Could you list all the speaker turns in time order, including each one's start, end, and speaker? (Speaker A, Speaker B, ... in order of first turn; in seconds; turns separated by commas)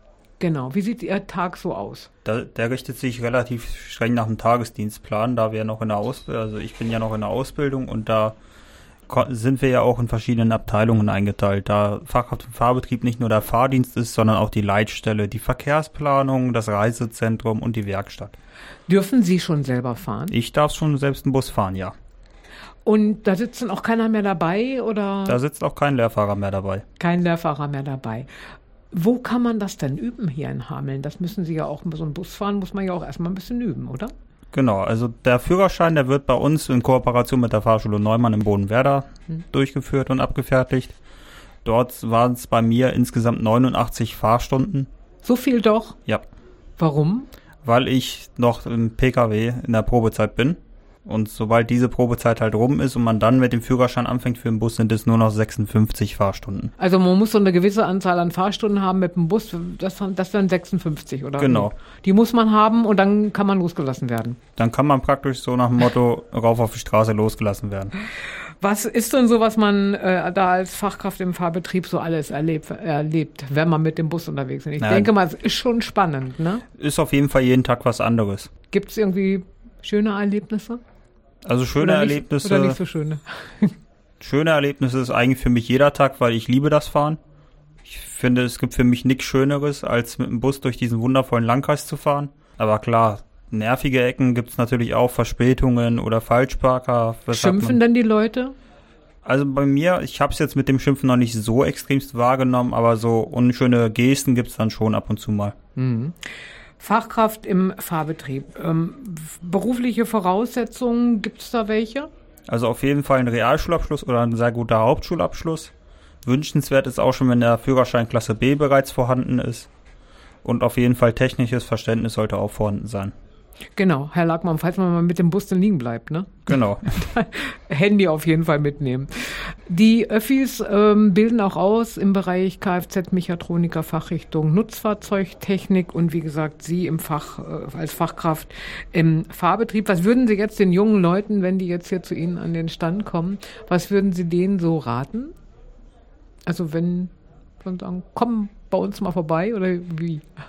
Speaker A: 0.4-2.1, Speaker B: 2.2-8.4, Speaker B: 9.1-18.4, Speaker A: 18.9-20.3, Speaker B: 20.3-21.9, Speaker A: 22.9-25.4, Speaker B: 25.3-26.8, Speaker A: 27.0-28.3, Speaker A: 28.9-34.1, Speaker B: 34.5-41.0, Speaker B: 41.6-44.9, Speaker A: 45.2-46.0, Speaker A: 46.8-47.3, Speaker B: 47.6-56.7, Speaker A: 56.8-64.4, Speaker B: 61.4-61.7, Speaker B: 64.6-67.9, Speaker A: 68.6-76.7, Speaker B: 74.8-75.1, Speaker B: 76.8-78.5, Speaker A: 78.7-80.8, Speaker B: 81.5-82.8, Speaker A: 81.8-83.7, Speaker B: 84.2-87.2, Speaker B: 87.8-97.8, Speaker A: 97.3-98.5, Speaker B: 99.2-105.5, Speaker A: 105.8-106.2, Speaker A: 106.8-112.1, Speaker B: 112.5-115.7, Speaker B: 116.2-119.7, Speaker B: 120.4-123.1, Speaker A: 123.8-145.3, Speaker B: 126.5-126.8, Speaker A: 146.5-150.3